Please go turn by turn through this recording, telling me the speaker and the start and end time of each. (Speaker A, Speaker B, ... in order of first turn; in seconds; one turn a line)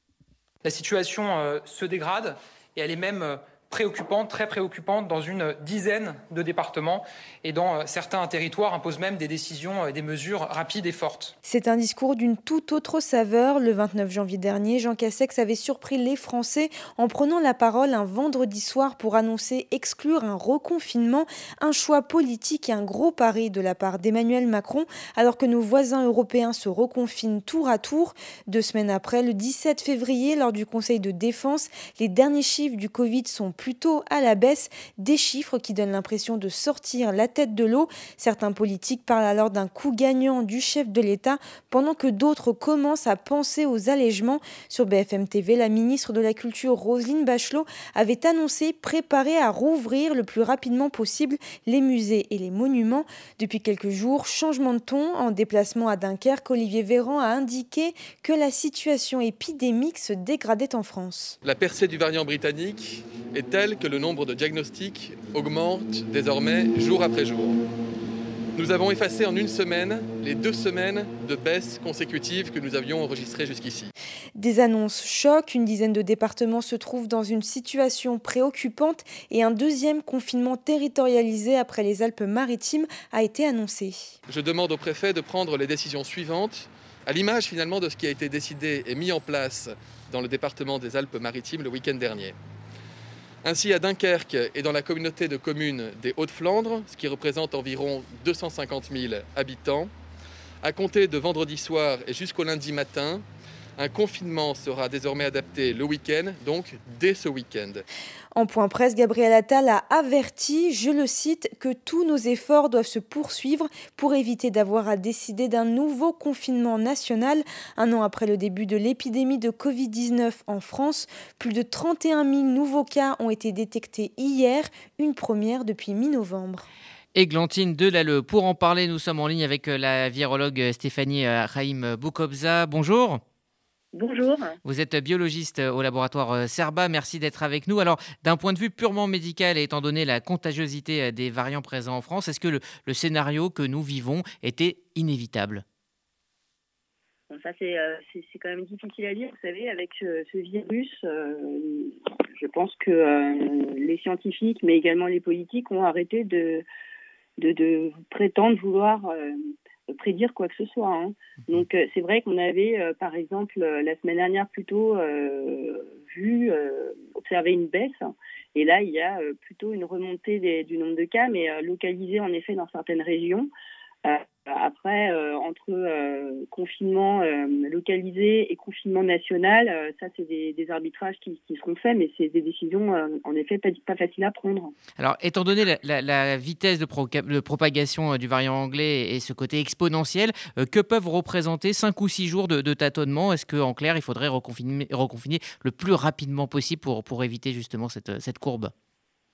Speaker A: 0.6-11.3
Speaker B: 11.4-61.4
Speaker C: 61.4-67.6
Speaker C: 68.6-73.9
Speaker B: 74.3-84.1
Speaker C: 84.3-92.3
Speaker C: 93.4-99.9
Speaker C: 100.6-103.2
Speaker C: 103.8-107.8
Speaker B: 108.3-126.7
Speaker D: 127.1-133.2
Speaker E: 133.9-134.6
Speaker D: 134.6-145.6
Speaker E: 147.3-156.6
Speaker E: 157.4-159.4
Speaker E: 159.9-173.5
Speaker E: 174.0-184.7
Speaker D: 185.0-198.7